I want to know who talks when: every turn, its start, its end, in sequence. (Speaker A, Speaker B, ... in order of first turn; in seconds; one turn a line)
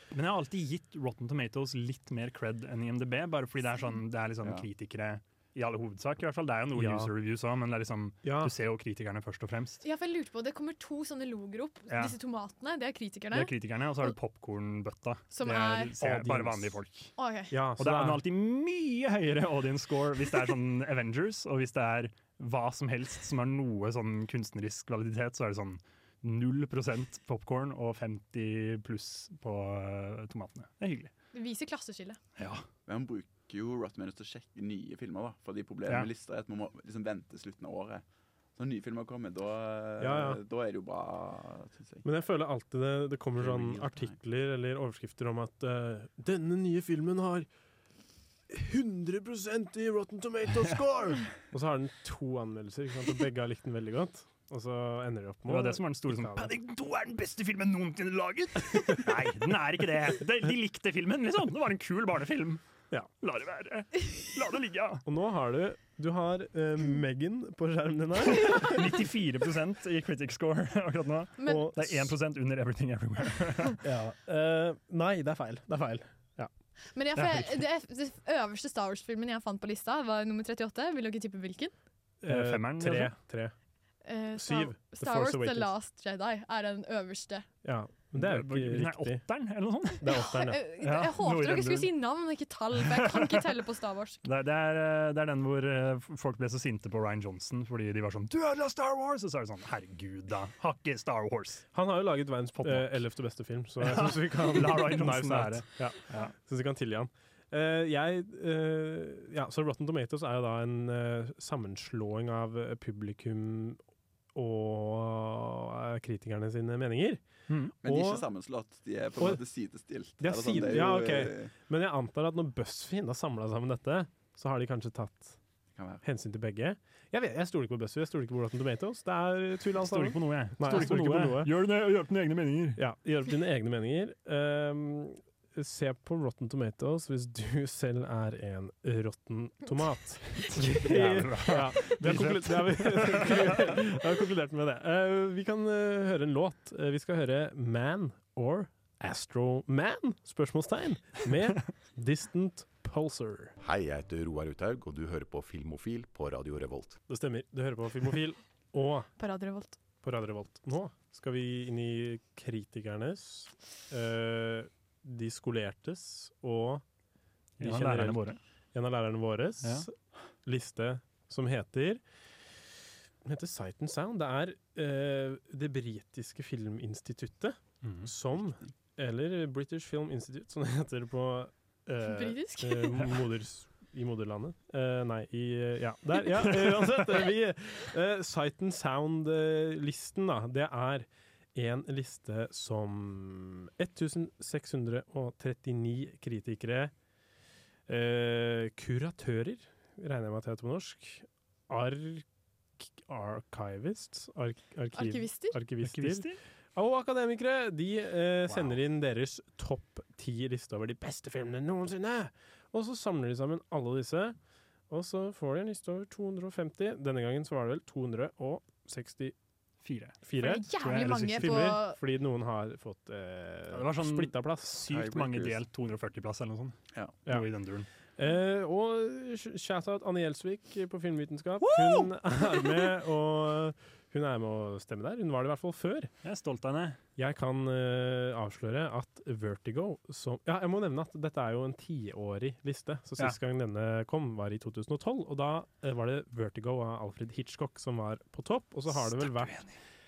Speaker A: 0.1-9.8
Speaker B: 6.7-7.1
Speaker B: 8.2-8.5
Speaker C: 9.8-13.5
Speaker A: 11.9-12.2
Speaker A: 13.3-17.1
Speaker C: 15.3-15.9
Speaker B: 16.0-16.8
Speaker C: 17.2-17.5
Speaker B: 17.5-18.2
Speaker A: 17.8-31.1
Speaker C: 31.3-32.2
Speaker A: 32.4-32.6
Speaker D: 32.9-38.0
Speaker D: 38.5-42.0
Speaker B: 40.0-40.4
Speaker B: 42.0-47.5
Speaker D: 43.4-44.1
Speaker B: 48.5-56.5
Speaker A: 55.5-62.6
Speaker A: 63.2-65.0
Speaker B: 65.0-68.9
Speaker A: 68.4-73.8
Speaker C: 71.4-71.7
Speaker B: 71.4-72.1
Speaker B: 73.8-76.5
Speaker C: 76.9-81.7
Speaker A: 77.2-77.6
Speaker B: 82.2-83.5
Speaker A: 82.2-83.1
Speaker C: 84.0-87.5
Speaker B: 84.3-85.7
Speaker B: 87.6-89.2
Speaker A: 88.2-90.1
Speaker B: 90.0-90.6
Speaker C: 90.1-94.2
Speaker A: 90.8-91.9
Speaker A: 92.8-93.4
Speaker A: 94.2-101.7
Speaker B: 101.7-113.8
Speaker A: 102.6-103.0
Speaker A: 103.8-106.3
Speaker B: 114.3-117.2
Speaker B: 117.8-118.2
Speaker D: 117.8-121.5
Speaker B: 120.2-125.4
Speaker D: 125.7-126.0
Speaker B: 126.0-131.5
Speaker A: 129.8-132.8
Speaker B: 132.8-153.6
Speaker A: 140.5-143.8
Speaker E: 153.6-157.0
Speaker B: 157.1-159.1
Speaker C: 159.2-159.8
Speaker B: 160.0-166.8
Speaker A: 167.6-168.4
Speaker B: 167.6-169.9
Speaker B: 170.4-172.0
Speaker B: 173.2-196.9
Speaker A: 177.8-178.1
Speaker C: 182.0-183.1
Speaker A: 186.6-186.9
Speaker B: 197.9-202.2
Speaker B: 202.8-214.3
Speaker C: 204.9-205.6
Speaker A: 205.8-206.4
Speaker B: 214.9-219.3
Speaker A: 219.8-220.2
Speaker B: 220.2-225.2
Speaker C: 220.4-222.0
Speaker A: 220.8-221.8
Speaker A: 223.7-227.9
Speaker D: 224.9-225.5
Speaker B: 228.2-236.1
Speaker A: 231.6-232.1
Speaker A: 236.2-237.0
Speaker B: 237.2-249.6
Speaker A: 248.9-249.8